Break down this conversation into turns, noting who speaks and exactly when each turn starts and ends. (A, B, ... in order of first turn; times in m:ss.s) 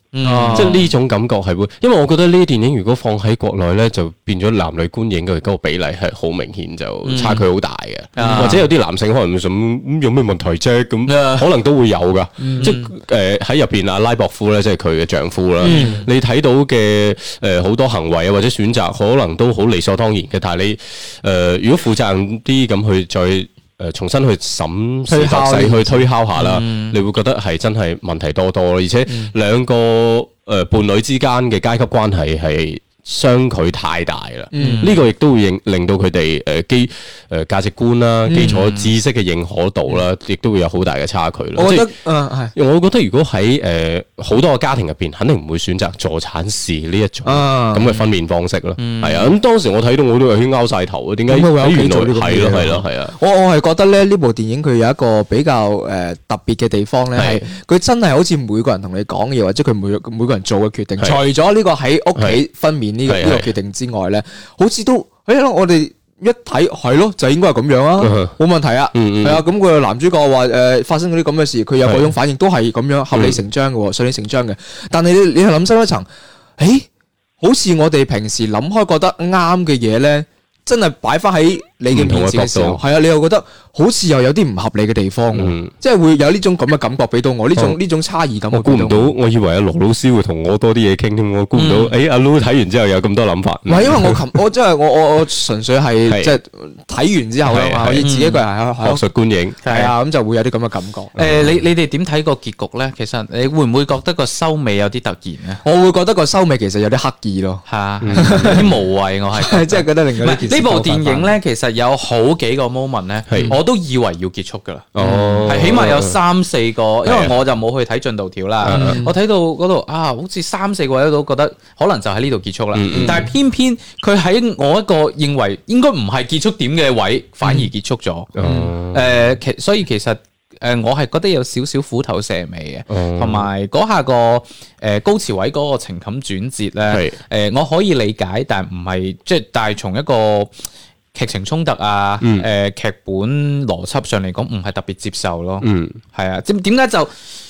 0:00.1-0:00.9 A
0:00.2-0:00.8 B
0:00.5-0:41.9 C
0:07.0-0:07.4 A
0:08.2-0:08.7 A
0:08.2-0:08.6 B
0:11.0-0:11.5 A
0:12.4-0:12.7 B
0:12.6-0:12.9 A
0:15.6-0:16.0 B
0:15.6-0:16.0 A
0:25.1-0:26.1 B
0:26.4-0:27.0 A
0:34.5-0:35.0 B
0:34.6-0:34.9 A
0:38.2-0:38.6 B
0:38.3-0:38.9 A
0:41.6-0:42.5 B
0:42.5-0:53.1 C
0:47.2-0:47.9 B
0:48.8-0:49.3 A
0:51.3-1:16.1 B
0:57.2-0:57.4 C
1:03.0-1:03.5 C
1:08.0-1:08.3 C
1:08.9-1:09.4 C
1:13.1-1:13.4 C
1:16.6-1:16.9 B
1:17.4-1:29.1 B
1:21.9-1:22.8 C
1:25.3-1:25.7 C
1:28.5-1:34.1 C
1:31.5-1:31.9 A
1:33.7-1:39.0 B
1:36.1-1:36.3 C
1:37.4-1:38.0 C
1:38.0-1:38.4 A
1:38.8-1:39.6 C
1:39.6-1:39.9 A
1:39.6-1:41.1 B
1:41.2-1:41.5 C
1:41.2-1:45.6 A
1:45.6-1:48.7 B
1:47.7-1:54.9 A
1:48.0-1:48.7 C
1:49.3-1:51.3 B
1:53.3-1:53.6 C
1:54.9-1:56.2 C
1:55.0-1:55.5 B
1:55.4-2:08.3 A
1:57.0-1:57.4 C
1:58.6-1:59.0 C
1:58.6-1:59.2 B
2:02.7-2:03.3 C
2:03.0-2:03.3 B
2:07.4-2:07.7 B
2:08.4-2:09.2 C
2:08.4-2:08.7 B
2:08.9-2:20.5 A
2:12.9-2:13.5 C
2:16.9-2:17.2 C
2:21.1-2:27.1 A
2:22.2-2:22.5 C
2:25.6-2:26.0 C